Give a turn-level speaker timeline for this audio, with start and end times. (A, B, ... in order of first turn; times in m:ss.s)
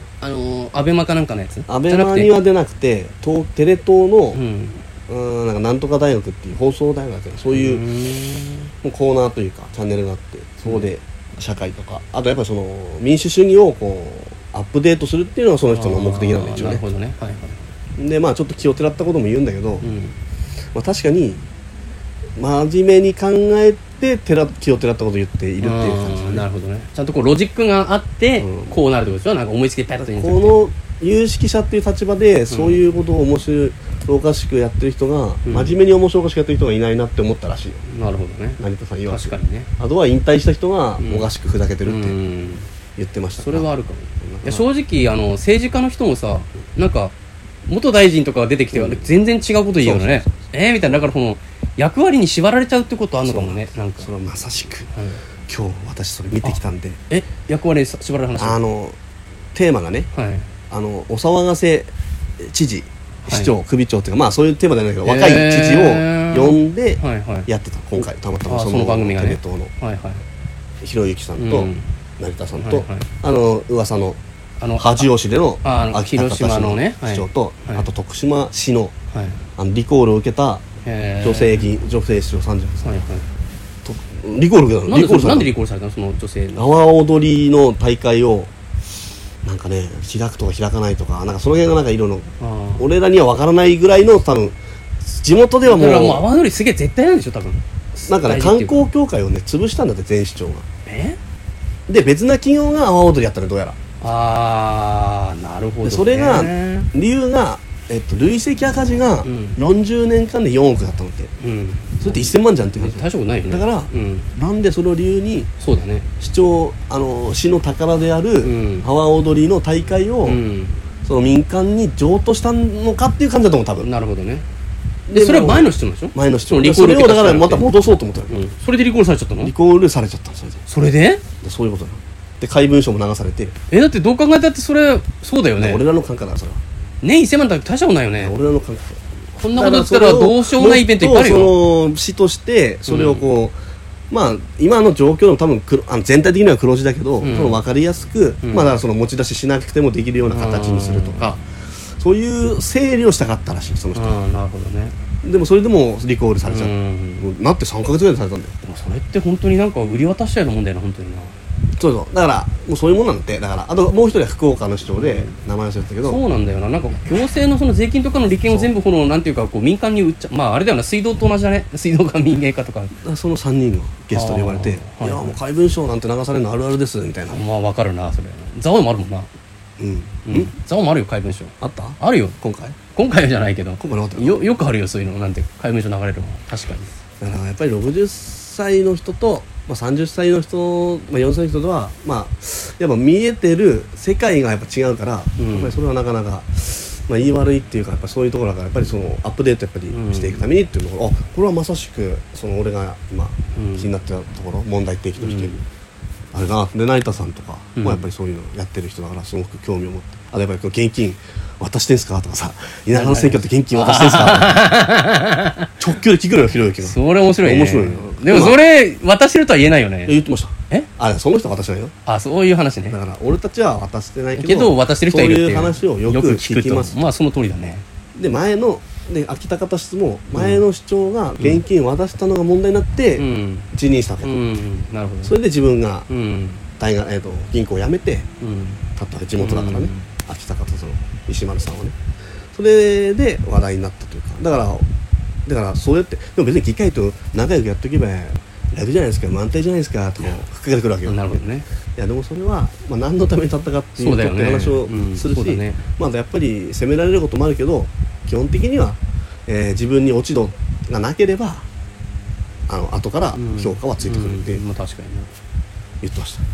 0:00.2-0:02.3 A
0:01.7-0:04.4 B
0:04.3-0:04.8 A
0:05.1-0:07.9 B
0:07.5-0:08.7 A
0:08.8-0:16.8 B
0:15.7-0:17.6 A
0:18.0-0:19.9 B
0:19.8-0:20.2 A
0:20.7-0:21.4 B
0:22.4-0:26.5 B
0:25.6-0:30.6 A
0:28.4-0:28.7 B
0:30.0-0:37.8 B
0:32.5-0:32.8 A
0:35.5-0:35.8 A
0:37.9-0:39.7 A
0:38.6-0:42.2 B
0:41.0-0:41.3 A
0:41.8-0:42.7 A
0:43.0-0:43.7 B
0:43.4-0:47.1 A
0:44.2-0:44.7 B
0:47.7-0:54.1 A
0:48.7-0:49.1 B
0:49.8-0:50.4 B
0:53.2-0:54.9 B
0:54.9-0:55.2 A
0:55.5-0:57.0 B
0:56.4-0:58.6 A
0:58.4-0:59.0 B
0:59.5-1:00.1 B
1:00.1-1:00.5 A
1:00.7-1:09.7 B
1:03.2-1:03.5 A
1:05.0-1:07.5 A
1:08.5-1:10.2 A
1:10.8-1:14.2 B
1:11.4-1:11.9 A
1:12.6-1:13.1 A
1:14.6-1:15.1 A
1:14.8-1:18.9 B
1:15.6-1:17.9 A
1:19.1-1:19.4 A
1:19.6-1:20.6 B
1:20.8-1:21.7 A
1:21.2-1:22.9 B
1:22.8-1:23.3 A
1:23.8-1:25.5 B
1:24.9-1:26.7 A
1:26.6-1:28.5 B
1:29.4-1:36.3 B
1:32.4-1:32.9 A
1:35.6-1:38.8 A
1:38.0-1:40.7 B
1:40.9-1:41.2 A
1:41.9-1:43.8 B
1:44.0-1:46.9 A
1:45.8-1:51.3 B
1:49.2-1:49.6 A
1:51.4-1:54.3 A
1:52.0-1:55.5 B
1:55.6-1:56.1 A
1:56.2-2:00.4 B
1:58.4-1:58.9 A
2:00.3-2:00.8 A
2:01.0-2:03.9 B
2:03.8-2:04.4 A
2:05.1-2:08.4 B
2:05.1-2:07.7 A
2:08.3-2:09.5 A
2:09.4-2:10.6 B
2:10.7-2:11.2 A
2:11.4-2:13.5 B
2:13.7-2:15.8 A
2:15.6-2:16.6 B
2:17.0-2:18.4 A
2:18.2-2:19.0 B
2:19.4-2:21.6 A
2:19.5-2:23.6 B
2:22.9-2:23.3 A
2:24.1-2:31.3 B
2:27.2-2:27.6 A
2:28.4-2:28.8 A
2:30.3-2:31.4 A
2:32.0-2:34.2 B
2:34.0-2:35.0 A
2:35.2-2:38.5 B
2:36.4-2:37.3 A
2:38.6-2:41.3 A
2:41.8-2:46.2 B
2:44.9-2:45.3 A
2:46.0-2:52.9 A
2:53.0-2:57.4 B
2:54.1-2:55.4 A
2:57.3-2:59.3 A
2:59.8-3:00.5 B
3:00.2-3:06.9 A
3:01.6-3:02.8 B
3:03.8-3:04.5 B
3:07.2-3:25.6 B
3:15.4-3:15.8 A
3:19.9-3:20.5 A
3:23.6-3:23.9 A
3:25.2-3:25.6 A
3:26.3-3:34.7 B
3:27.8-3:28.1 A
3:32.9-3:35.7 A
3:35.8-3:38.6 B
3:36.8-3:40.2 A
3:40.1-3:41.9 B
3:42.1-3:43.0 A
3:42.9-3:47.0 B
3:44.4-3:47.8 A
3:48.2-3:54.4 B
3:50.4-3:50.6 A
3:53.2-3:53.7 A
3:54.2-3:55.4 A
3:55.2-3:56.1 B
3:56.1-3:56.6 A
3:56.8-3:58.3 B
3:58.4-3:58.8 A
3:59.0-4:02.0 B
3:59.4-4:00.1 A
4:02.5-4:04.9 B
4:05.5-4:11.4 B
4:11.0-4:11.7 A
4:12.0-4:21.7 B
4:14.0-4:15.8 A
4:22.7-4:24.6 B
4:23.4-4:25.3 A
4:26.0-4:26.4 B